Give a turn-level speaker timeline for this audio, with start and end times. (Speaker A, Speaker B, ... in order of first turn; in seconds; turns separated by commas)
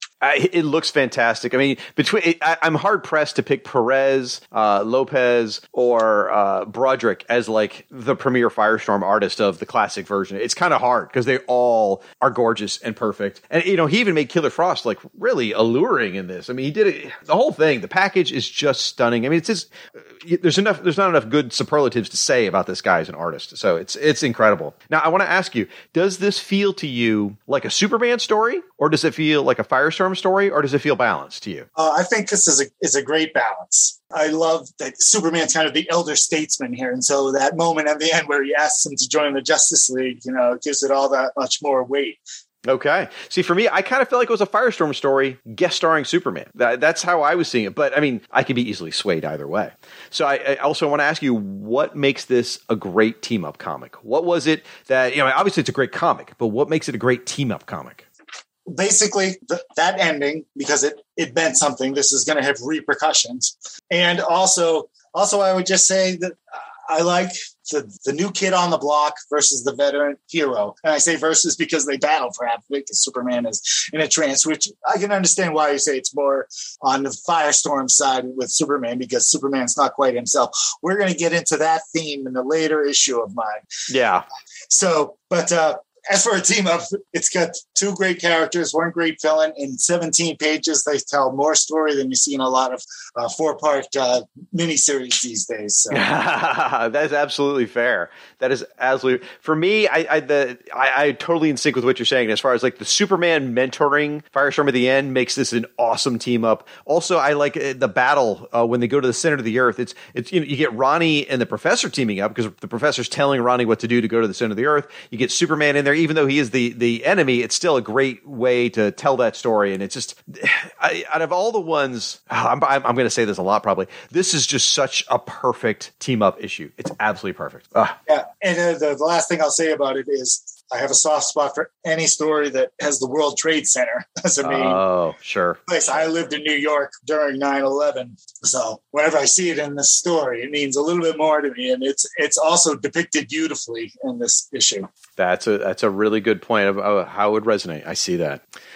Speaker A: 0.2-19.7, Speaker A: 20.2-31.7, Speaker B: 31.8-42.2, Speaker A: 42.6-58.0, Speaker B: 58.7-83.6, Speaker A: 83.9-84.2, Speaker B: 84.7-96.0, Speaker A: 95.9-128.0, Speaker B: 128.1-134.8, Speaker A: 134.4-136.1, Speaker B: 135.7-144.9, Speaker A: 145.2-148.4